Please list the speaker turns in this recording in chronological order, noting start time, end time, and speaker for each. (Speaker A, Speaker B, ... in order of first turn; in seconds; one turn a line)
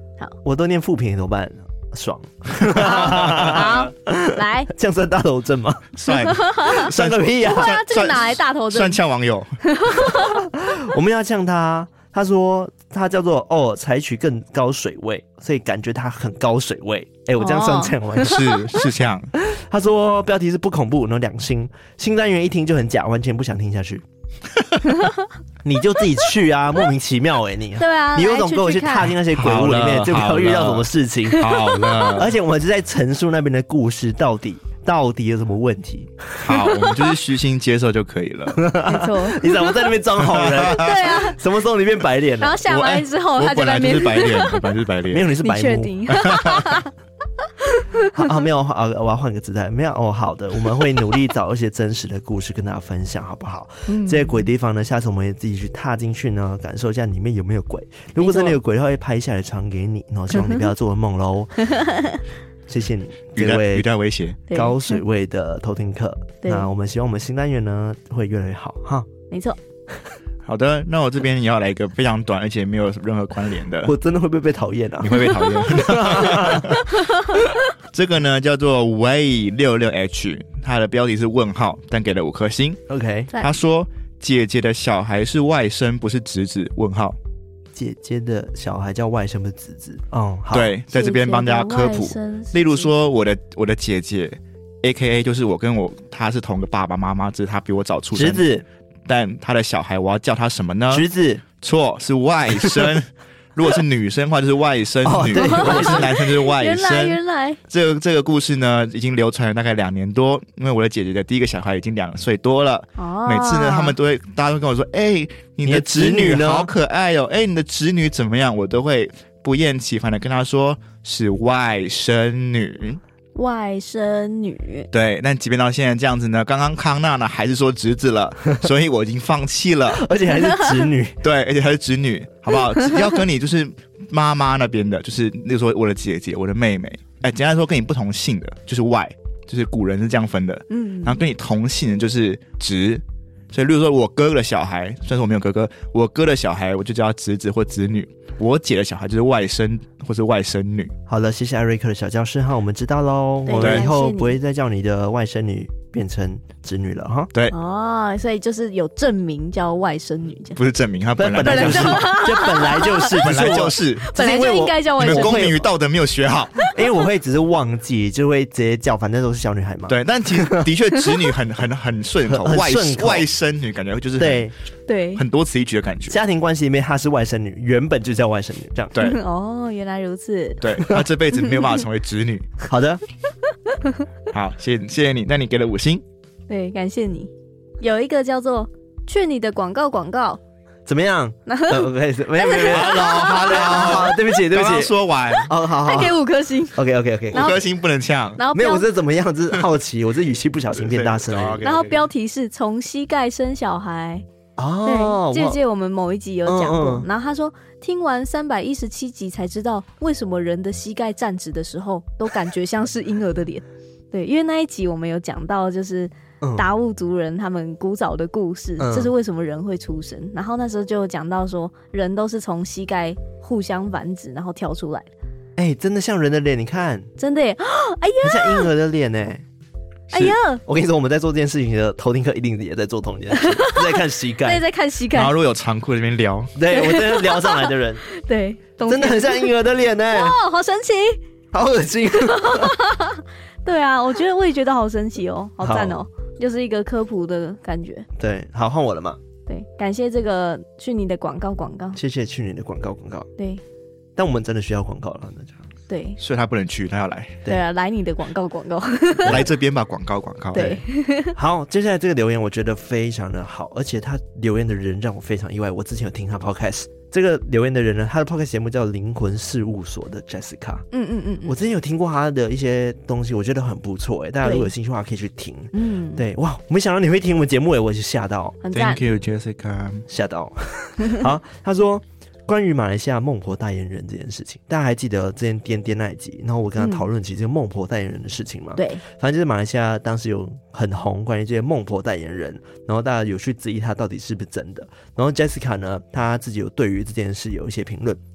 Speaker A: 0.4-6.0
Speaker B: 2.7-4.7
Speaker C: 3.0-3.7
Speaker C: 6.0-9.6
Speaker B: 6.1-6.9
Speaker A: 6.7-7.7
Speaker B: 7.4-9.0
Speaker B: 9.6-10.5
Speaker A: 10.0-18.6
Speaker B: 17.4-18.4
Speaker C: 18.2-19.3
Speaker A: 19.4-24.0
Speaker B: 24.9-25.3
Speaker A: 25.6-31.5
Speaker B: 27.8-29.1
Speaker C: 29.3-32.3
Speaker B: 31.4-32.1
Speaker A: 32.1-36.9
Speaker C: 36.4-38.7
Speaker A: 38.5-42.6
Speaker B: 38.8-39.9
Speaker C: 40.2-41.0
Speaker B: 40.6-41.4
Speaker B: 42.4-44.6
Speaker C: 42.6-45.3
Speaker A: 45.1-46.0
Speaker B: 45.4-46.9
Speaker C: 46.1-46.7
Speaker B: 47.6-48.1
Speaker A: 48.1-61.6
Speaker B: 53.9-54.5
Speaker B: 58.2-58.6
Speaker B: 60.3-60.7
Speaker B: 61.7-62.2
Speaker A: 62.7-63.9
Speaker C: 63.4-64.4
Speaker B: 64.5-65.0
Speaker A: 64.5-69.1
Speaker B: 66.4-66.7
Speaker B: 69.3-69.6
Speaker C: 70.4-73.9
Speaker A: 73.8-76.7
Speaker C: 75.0-82.8
Speaker B: 76.7-77.2
Speaker A: 82.9-83.3
Speaker C: 83.4-87.2
Speaker A: 87.7-90.7
Speaker C: 90.5-98.4
Speaker B: 90.9-92.9
Speaker A: 98.1-98.7
Speaker C: 99.0-101.1
Speaker A: 100.9-101.4
Speaker C: 101.6-123.0
Speaker A: 102.5-102.9
Speaker A: 105.0-106.1
Speaker B: 105.3-107.6
Speaker B: 113.0-113.9
Speaker A: 115.6-116.7
Speaker B: 123.3-124.9
Speaker C: 124.9-130.1
Speaker A: 129.9-131.2
Speaker C: 131.2-150.9
Speaker B: 140.7-141.2
Speaker A: 151.1-157.3
Speaker B: 153.4-154.3
Speaker C: 153.6-153.8
Speaker B: 157.5-160.6
Speaker C: 160.6-162.2
Speaker A: 161.2-165.7
Speaker B: 161.4-163.2
Speaker C: 163.1-164.1
Speaker B: 164.0-165.5
Speaker C: 165.0-166.6
Speaker A: 166.7-170.7
Speaker C: 169.9-174.5
Speaker A: 172.2-173.3
Speaker A: 174.2-174.5
Speaker B: 174.9-175.2
Speaker C: 175.2-176.2
Speaker A: 176.1-178.9
Speaker C: 178.9-179.2
Speaker B: 179.0-180.6
Speaker C: 180.6-182.5
Speaker A: 182.7-183.0
Speaker B: 183.7-184.0
Speaker C: 184.3-186.0
Speaker B: 186.5-190.4
Speaker A: 190.8-194.9
Speaker B: 191.5-191.9
Speaker B: 192.4-193.8
Speaker C: 192.6-195.5
Speaker A: 195.4-196.2
Speaker B: 195.7-196.8
Speaker A: 196.7-197.6
Speaker B: 197.3-197.6
Speaker C: 197.3-198.4
Speaker B: 198.3-198.9
Speaker A: 198.5-201.7
Speaker C: 200.7-202.1
Speaker B: 201.6-204.2
Speaker A: 204.6-205.6
Speaker B: 204.8-225.1
Speaker A: 206.4-207.1
Speaker A: 216.4-216.7
Speaker A: 218.8-219.1
Speaker A: 225.6-227.1
Speaker B: 227.2-228.7
Speaker A: 228.2-229.4
Speaker C: 230.1-230.4
Speaker B: 230.1-230.6
Speaker A: 230.6-234.6
Speaker B: 233.3-235.3
Speaker C: 235.1-236.5
Speaker A: 236.5-238.0
Speaker B: 236.7-239.5
Speaker A: 238.9-240.4
Speaker B: 240.1-241.2
Speaker A: 241.5-242.8
Speaker B: 242.2-248.1
Speaker A: 245.6-246.0
Speaker A: 248.2-249.2
Speaker B: 249.4-252.0
Speaker A: 251.9-253.3
Speaker B: 253.4-253.6
Speaker A: 254.2-255.6
Speaker B: 255.9-256.2
Speaker C: 256.2-257.4
Speaker B: 257.4-259.5
Speaker A: 259.2-259.5
Speaker C: 259.3-260.8
Speaker B: 260.5-261.4
Speaker A: 261.3-270.8
Speaker B: 270.9-271.5
Speaker A: 271.4-278.6
Speaker B: 274.4-274.7
Speaker B: 275.7-276.2
Speaker B: 278.6-279.0
Speaker C: 278.7-280.1
Speaker A: 280.1-298.2
Speaker B: 286.8-287.1
Speaker B: 288.8-289.0